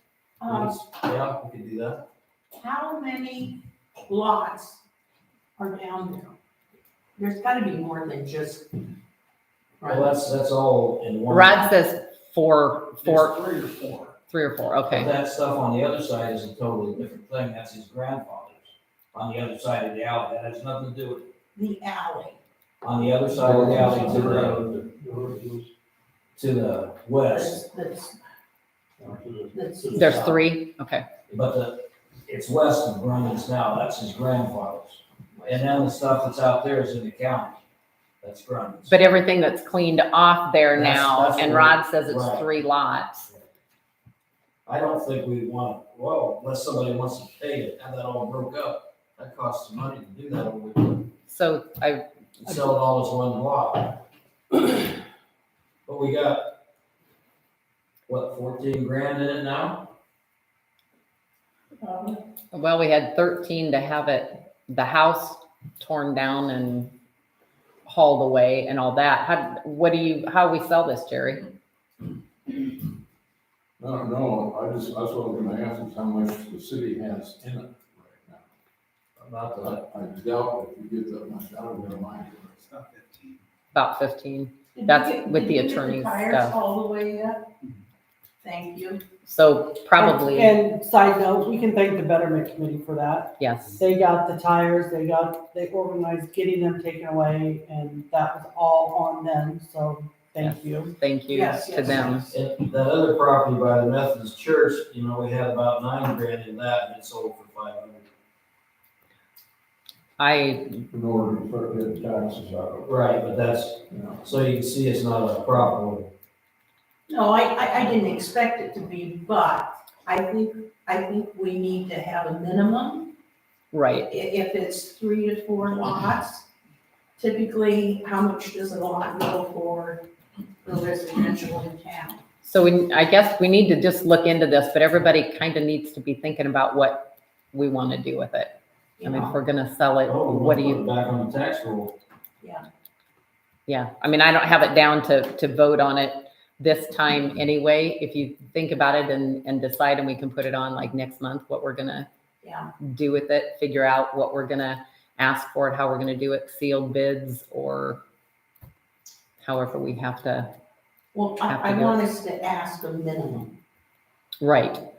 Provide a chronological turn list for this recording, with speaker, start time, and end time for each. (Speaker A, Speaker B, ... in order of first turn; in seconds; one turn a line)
Speaker A: 0.4-0.8
Speaker B: 0.5-2.0
Speaker A: 2.6-4.8
Speaker A: 5.6-6.3
Speaker A: 7.2-8.9
Speaker A: 9.8-10.1
Speaker B: 9.8-11.7
Speaker C: 11.3-13.4
Speaker B: 13.0-14.1
Speaker C: 14.3-15.1
Speaker B: 14.9-21.3
Speaker A: 21.5-22.4
Speaker B: 22.8-24.7
Speaker D: 23.4-25.7
Speaker B: 26.4-27.6
Speaker A: 27.3-28.2
Speaker D: 29.0-29.5
Speaker A: 29.5-30.4
Speaker C: 29.9-31.0
Speaker B: 31.3-37.6
Speaker A: 35.3-35.9
Speaker B: 38.2-39.0
Speaker C: 38.9-43.3
Speaker B: 40.7-42.4
Speaker B: 44.6-51.1
Speaker C: 51.3-52.6
Speaker B: 52.4-54.0
Speaker B: 55.9-56.5
Speaker B: 58.1-59.9
Speaker A: 61.8-62.2
Speaker C: 62.5-66.9
Speaker C: 67.8-71.5
Speaker D: 73.8-78.5
Speaker B: 79.2-79.8
Speaker D: 79.6-82.8
Speaker C: 83.7-86.5
Speaker A: 84.7-87.5
Speaker A: 88.4-89.0
Speaker C: 89.2-90.5
Speaker E: 90.0-100.9
Speaker C: 93.4-93.8
Speaker C: 100.4-102.3
Speaker A: 101.3-102.3
Speaker B: 102.3-108.1
Speaker C: 110.2-110.8
Speaker D: 110.9-112.9
Speaker B: 112.8-116.1
Speaker D: 113.9-114.2
Speaker A: 117.1-123.1
Speaker C: 123.7-124.1
Speaker A: 124.1-126.5
Speaker A: 127.2-130.0
Speaker A: 130.6-132.2
Speaker C: 132.4-140.8
Speaker A: 139.0-139.4
Speaker B: 140.0-141.9
Speaker C: 143.7-152.1
Speaker A: 152.4-152.7
Speaker C: 152.8-158.0
Speaker C: 159.4-160.5
Speaker A: 161.1-163.5
Speaker C: 161.4-162.0
Speaker C: 164.4-164.8